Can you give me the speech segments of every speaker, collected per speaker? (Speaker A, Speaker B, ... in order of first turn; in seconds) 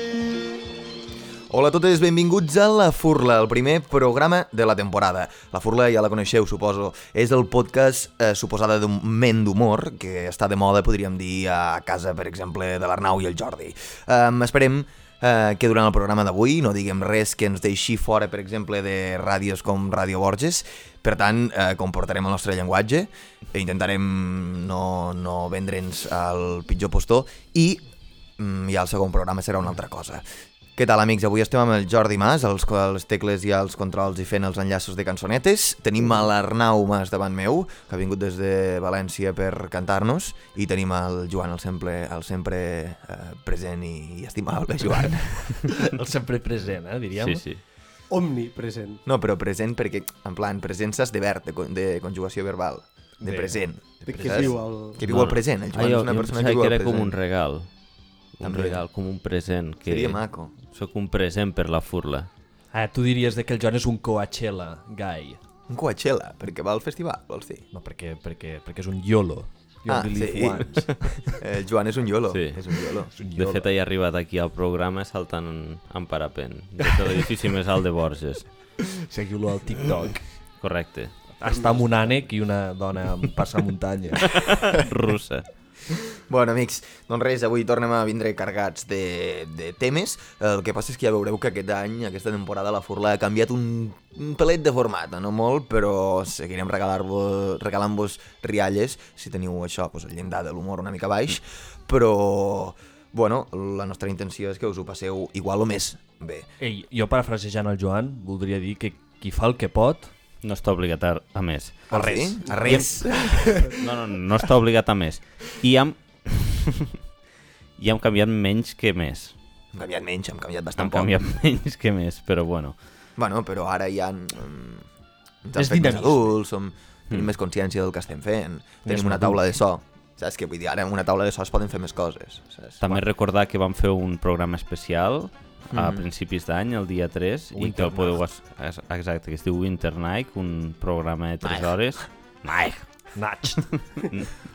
Speaker A: 1.5-27.8, 28.4-30.2, 30.8-45.7, 49.1-57.2, 58.4-58.8, 59.9-60.5, 65.7-67.6, 69.9-73.1, 86.3-106.5, 111.9-113.6, 119.7-121.2, 123.2-124.9, 125.4-133.0, 135.7-136.1, 141.4-141.8
Speaker B: 45.6-47.4, 53.2-54.6, 62.7-65.4, 67.7-71.4, 73.2-73.7, 78.8-80.3, 81.4-84.4, 106.6-110.1, 111.9-113.8, 125.5-126.3, 128.8-129.6, 137.5-138.2, 143.2-143.7
Speaker C: 47.2-47.6, 55.0-57.7, 58.4-62.3, 72.3-72.6, 73.3-78.5, 80.6-81.2, 84.3-85.5, 110.4-111.9, 113.7-117.0, 117.8-119.4, 120.8-122.8, 132.8-142.9, 143.6-144.3
Speaker D: 48.1-49.0, 54.0-55.0, 112.7-113.7